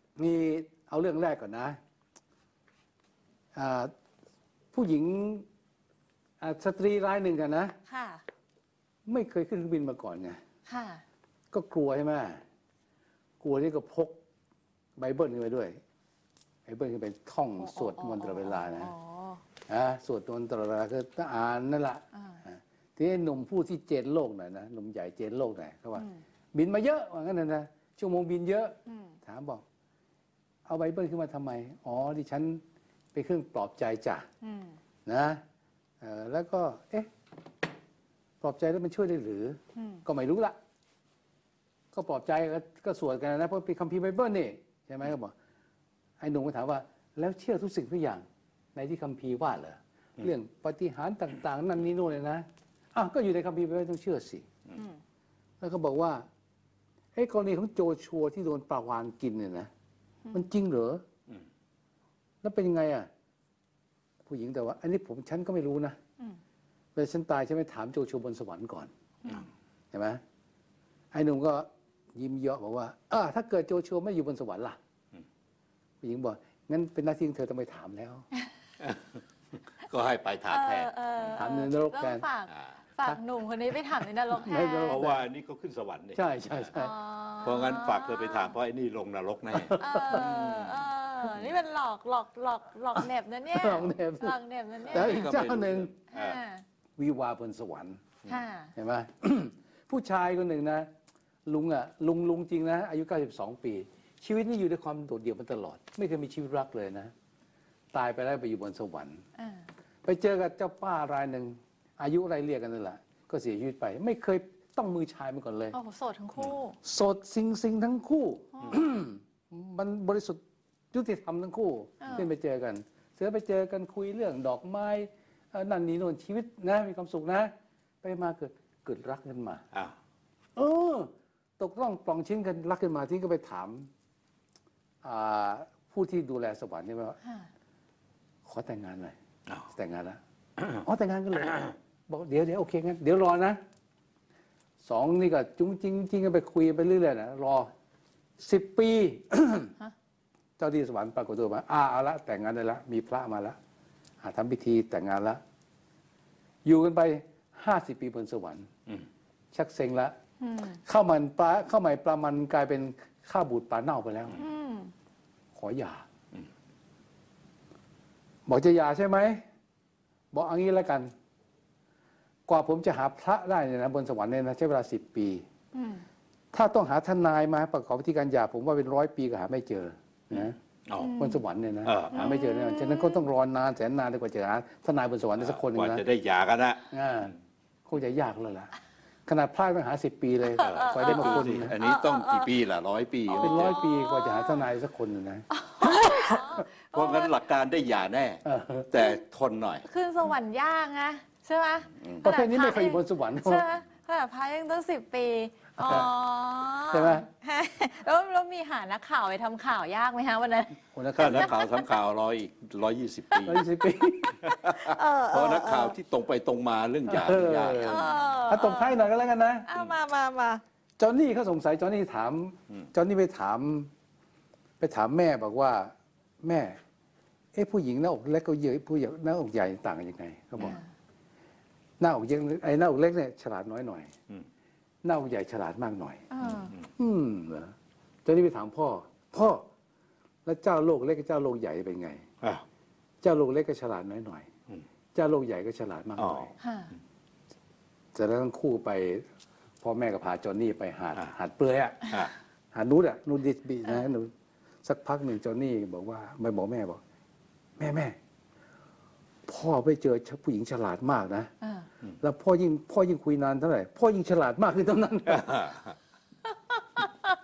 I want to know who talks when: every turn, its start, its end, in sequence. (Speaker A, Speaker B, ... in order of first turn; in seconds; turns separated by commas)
Speaker A: 0.2-1.8, Speaker A: 3.5-3.9, Speaker A: 4.7-5.5, Speaker A: 6.4-7.8, Speaker B: 7.9-8.2, Speaker A: 9.1-10.4, Speaker B: 10.7-11.0, Speaker A: 11.5-12.4, Speaker A: 13.4-14.2, Speaker A: 15.0-15.8, Speaker A: 16.7-18.9, Speaker B: 17.6-19.4, Speaker A: 19.7-29.6, Speaker B: 22.1-22.4, Speaker B: 28.9-29.2, Speaker A: 30.7-32.6, Speaker A: 33.1-34.3, Speaker B: 34.4-34.8, Speaker A: 35.0-35.4, Speaker A: 36.0-37.1, Speaker A: 38.4-40.6, Speaker B: 39.8-40.0, Speaker A: 41.9-45.3, Speaker A: 46.2-54.5, Speaker A: 55.6-56.3, Speaker A: 57.1-59.7, Speaker A: 60.3-61.0, Speaker A: 62.4-63.1, Speaker A: 64.2-66.0, Speaker A: 67.0-68.9, Speaker A: 69.9-70.2, Speaker A: 71.1-74.8, Speaker A: 76.0-78.2, Speaker C: 78.8-79.2, Speaker C: 79.8-81.4, Speaker B: 80.5-85.1, Speaker A: 81.4-82.3, Speaker A: 84.4-85.2, Speaker C: 84.9-86.2, Speaker A: 86.1-87.0, Speaker B: 86.7-88.5, Speaker C: 87.4-90.9, Speaker A: 89.6-90.3, Speaker B: 89.8-95.3, Speaker A: 93.5-94.4, Speaker C: 94.9-96.4, Speaker A: 94.9-95.9, Speaker B: 96.1-96.6, Speaker A: 97.0-98.0, Speaker B: 98.2-98.7, Speaker A: 98.8-100.9, Speaker A: 101.5-107.1, Speaker A: 107.9-109.2, Speaker B: 109.4-109.6, Speaker A: 110.0-115.8, Speaker B: 115.7-116.8, Speaker A: 116.8-120.4, Speaker B: 118.5-118.8, Speaker A: 120.9-129.7, Speaker B: 122.0-122.3, Speaker A: 130.6-133.9, Speaker A: 135.0-137.2, Speaker A: 138.4-139.1, Speaker A: 139.7-140.2, Speaker A: 140.7-143.6, Speaker A: 144.8-147.7, Speaker A: 148.4-149.8, Speaker A: 150.6-153.6, Speaker A: 154.2-155.4, Speaker A: 156.6-158.7, Speaker A: 159.5-160.1, Speaker B: 160.4-160.8, Speaker A: 160.8-164.4, Speaker B: 164.4-164.9, Speaker A: 165.5-166.1, Speaker A: 168.4-169.4, Speaker A: 170.3-171.1, Speaker A: 172.5-175.4, Speaker B: 175.7-176.0, Speaker A: 176.5-180.6, Speaker C: 180.3-181.1, Speaker B: 181.0-181.4, Speaker A: 181.1-186.0, Speaker C: 181.8-182.3, Speaker B: 182.1-183.3, Speaker C: 185.4-186.9, Speaker A: 186.9-187.3, Speaker A: 187.9-188.7, Speaker A: 189.2-191.8, Speaker B: 190.6-192.5, Speaker C: 190.6-193.8, Speaker B: 193.3-194.7, Speaker A: 193.3-196.3, Speaker B: 195.5-197.4, Speaker C: 196.9-199.8, Speaker A: 198.4-198.9, Speaker B: 199.8-210.8, Speaker A: 202.2-203.7, Speaker A: 206.9-207.3, Speaker A: 210.9-211.6, Speaker C: 211.2-213.6, Speaker B: 211.4-211.6, Speaker A: 213.4-214.4, Speaker C: 214.4-218.2, Speaker B: 214.8-215.9, Speaker A: 217.1-219.7, Speaker B: 217.8-219.1, Speaker B: 219.7-220.6, Speaker A: 221.0-223.9, Speaker A: 224.8-226.8, Speaker A: 227.5-230.8, Speaker B: 230.6-230.8, Speaker A: 232.0-234.1, Speaker A: 235.0-236.2, Speaker B: 236.3-236.7, Speaker C: 236.4-236.8, Speaker A: 236.9-237.7, Speaker A: 238.2-239.7, Speaker A: 240.4-242.2, Speaker A: 243.2-244.5, Speaker A: 245.1-246.5, Speaker C: 246.2-246.5, Speaker B: 246.6-246.9, Speaker A: 248.1-249.2, Speaker A: 249.8-252.2, Speaker A: 252.7-254.3, Speaker A: 254.8-257.0, Speaker A: 257.8-258.2, Speaker A: 259.5-261.5, Speaker A: 262.2-265.6, Speaker C: 265.3-265.9